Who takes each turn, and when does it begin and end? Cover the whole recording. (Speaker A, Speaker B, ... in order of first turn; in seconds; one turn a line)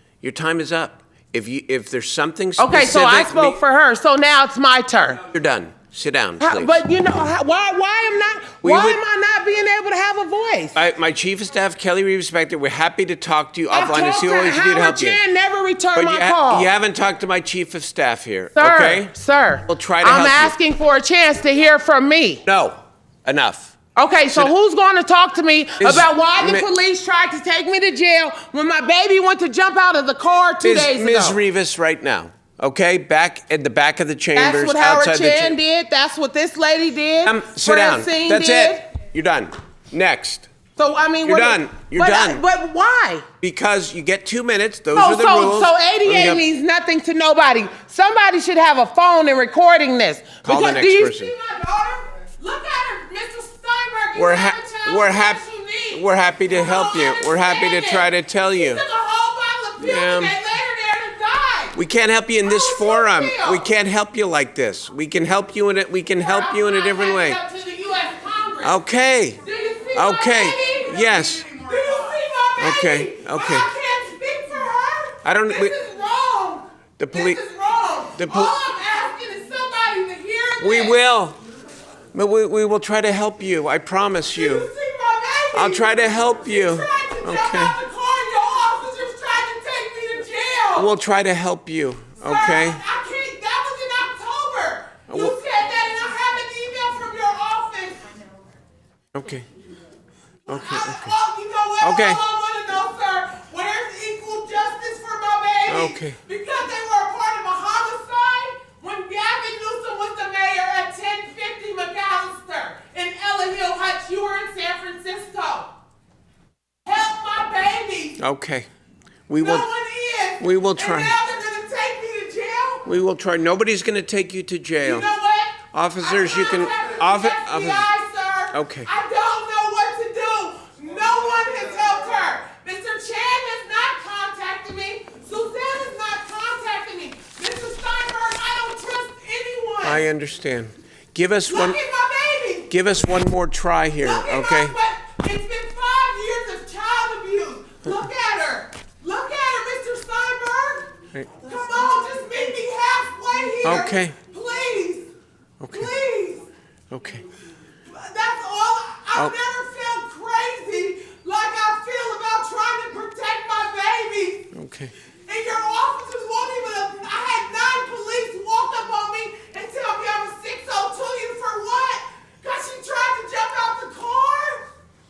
Speaker A: 0.2-3.6
Speaker B: 2.6-5.2
Speaker A: 5.2-6.8
Speaker B: 6.4-10.8
Speaker A: 8.6-9.0
Speaker A: 10.7-15.2
Speaker B: 13.7-16.7
Speaker A: 15.9-19.1
Speaker B: 18.6-22.4
Speaker A: 19.7-20.6
Speaker A: 22.5-23.8
Speaker B: 23.9-31.4
Speaker A: 25.8-26.7
Speaker A: 30.6-35.6
Speaker B: 34.4-38.8
Speaker A: 37.2-40.5
Speaker B: 40.8-43.3
Speaker A: 41.2-42.4
Speaker A: 43.4-46.4
Speaker B: 44.9-61.8
Speaker A: 50.4-51.3
Speaker A: 54.1-58.8
Speaker A: 59.8-60.4
Speaker A: 61.7-67.4
Speaker B: 62.4-63.7
Speaker B: 66.2-68.8
Speaker A: 68.6-69.4
Speaker B: 69.4-81.0
Speaker A: 69.9-71.5
Speaker A: 72.6-73.7
Speaker A: 75.2-75.8
Speaker A: 77.0-77.4
Speaker A: 78.2-78.6
Speaker A: 80.6-81.4
Speaker A: 82.1-84.7
Speaker B: 84.2-90.9
Speaker A: 85.5-87.8
Speaker A: 90.8-92.8
Speaker B: 92.2-98.2
Speaker A: 95.1-95.4
Speaker A: 99.1-99.5
Speaker A: 100.5-101.1
Speaker B: 100.5-115.7
Speaker A: 101.8-102.2
Speaker A: 105.7-106.2
Speaker B: 116.9-118.2
Speaker A: 118.2-118.7
Speaker A: 119.3-119.7
Speaker B: 119.4-122.9
Speaker A: 120.4-121.2
Speaker A: 122.8-125.1
Speaker B: 124.8-140.0
Speaker A: 125.7-127.9
Speaker A: 128.5-128.9
Speaker A: 139.8-141.8
Speaker B: 141.4-142.7
Speaker A: 142.7-144.8
Speaker B: 144.0-155.1
Speaker A: 153.6-154.2
Speaker A: 155.6-155.9
Speaker B: 155.7-156.4
Speaker A: 156.9-157.3
Speaker B: 157.9-164.5
Speaker A: 164.5-164.9
Speaker B: 165.3-174.7